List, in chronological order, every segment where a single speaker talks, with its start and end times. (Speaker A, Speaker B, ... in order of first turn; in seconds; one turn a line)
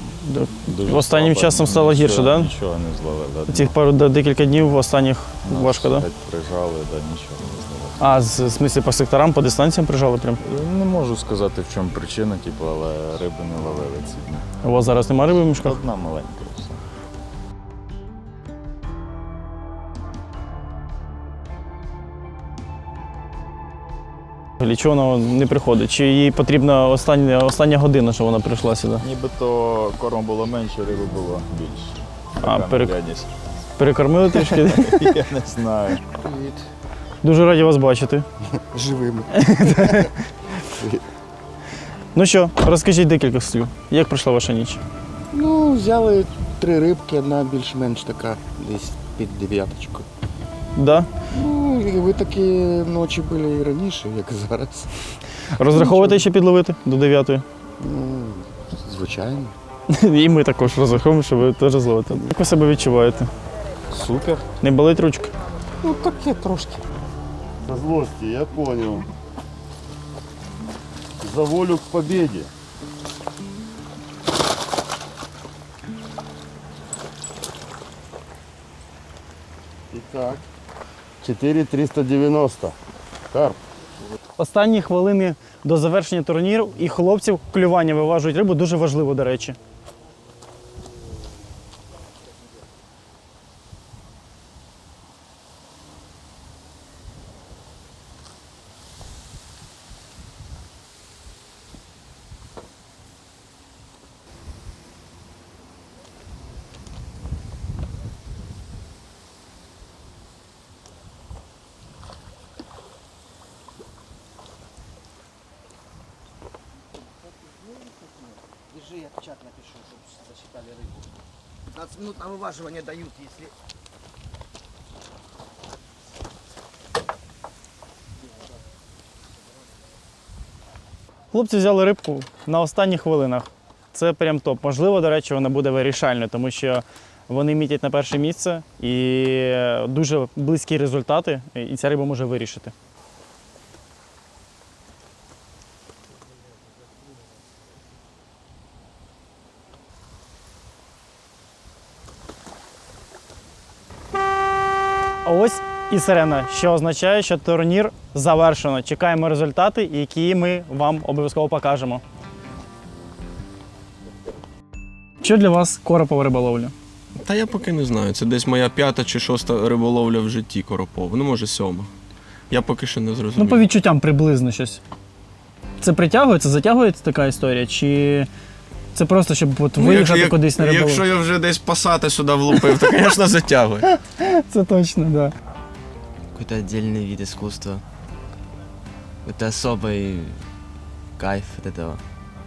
Speaker A: 0.2-2.5
Speaker B: 0.7-3.7
Speaker A: 3.5-6.1
Speaker B: 5.5-7.9
Speaker A: 8.0-10.4
Speaker B: 10.4-14.4
Speaker A: 14.6-15.8
Speaker B: 15.6-16.8
Speaker A: 24.6-29.0
Speaker B: 29.0-31.9
Speaker A: 32.4-32.9
Speaker B: 32.4-33.2
Speaker A: 33.8-35.2
Speaker B: 35.3-36.0
Speaker C: 36.1-36.6
Speaker A: 37.2-38.2
Speaker C: 38.7-40.0
Speaker A: 39.4-40.1
Speaker C: 40.8-41.0
Speaker A: 42.1-44.8
Speaker C: 45.3-50.1
Speaker A: 50.8-51.1
Speaker C: 51.3-54.9
Speaker A: 55.6-57.4
Speaker C: 55.7-56.2
Speaker C: 57.8-59.5
Speaker A: 59.9-63.3
Speaker C: 63.9-64.3
Speaker A: 64.6-65.3
Speaker C: 65.8-66.8
Speaker D: 67.6-69.0
Speaker D: 71.2-72.5
Speaker C: 79.9-80.2
Speaker D: 81.2-82.7
Speaker D: 83.3-83.6
Speaker A: 84.4-89.6
Speaker A: 131.3-142.7
Speaker A: 155.2-162.0
Speaker A: 165.2-166.7
Speaker E: 167.2-171.9
Speaker E: 172.5-173.6
Speaker A: 173.4-174.8
Speaker A: 175.8-178.3
Speaker A: 178.9-181.0
Speaker E: 179.8-183.8
Speaker A: 184.2-185.3
Speaker F: 186.3-187.8
Speaker F: 189.2-190.4
Speaker F: 191.2-192.0